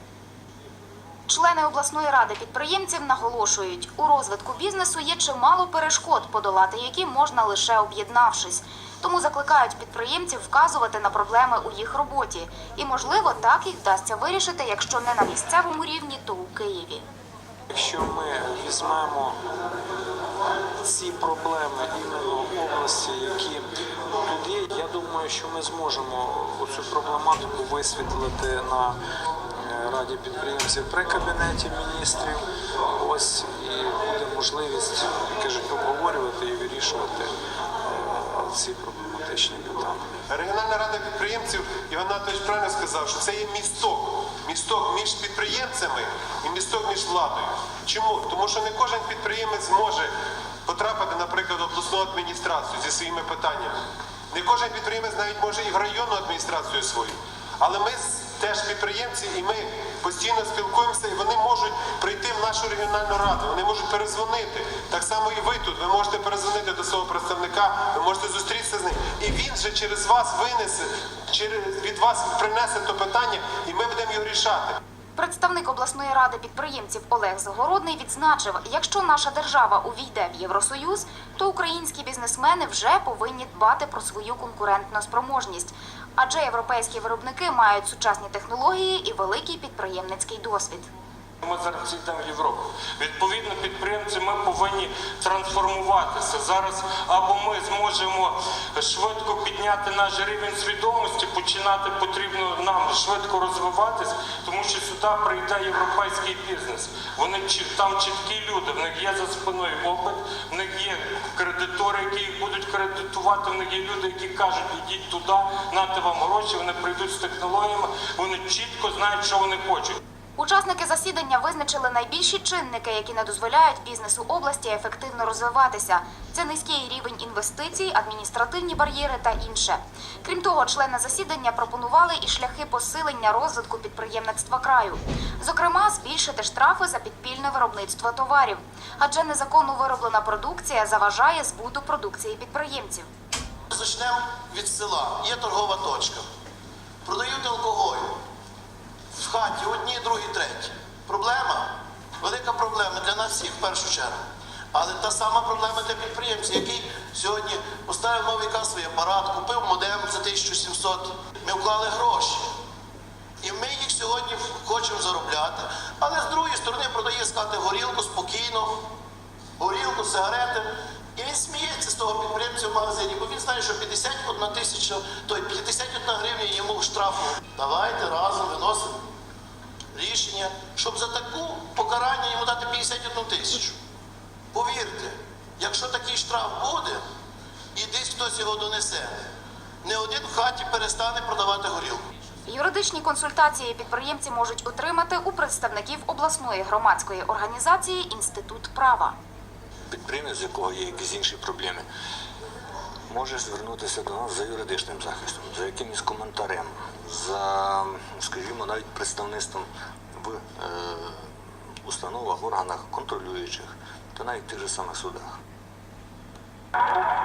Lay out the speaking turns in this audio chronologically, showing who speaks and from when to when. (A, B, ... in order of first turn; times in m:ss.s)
0:01.3-0:17.0 A
0:17.7-0:19.4 B
0:20.8-0:29.0 B
0:29.5-0:37.3 B
0:37.9-0:40.1 B
0:40.3-0:50.1 C
0:50.7-0:53.8 C
0:54.3-1:14.8 C
1:15.2-1:30.9 A
1:31.4-2:00.0 D
2:00.4-2:23.1 A
2:23.7-2:26.2 E
2:27.0-2:28.2 E
2:29.1-2:34.2 E
2:34.7-2:42.4 E
2:43.4-2:48.8 E
2:49.6-2:59.0 E
2:59.9-3:03.7 E
3:04.5-3:07.0 E
3:07.7-3:09.1 E
3:09.8-3:12.0 E
3:12.5-3:19.1 A
3:19.9-3:21.8 F
3:23.1-3:31.3 F
3:31.8-3:35.3 F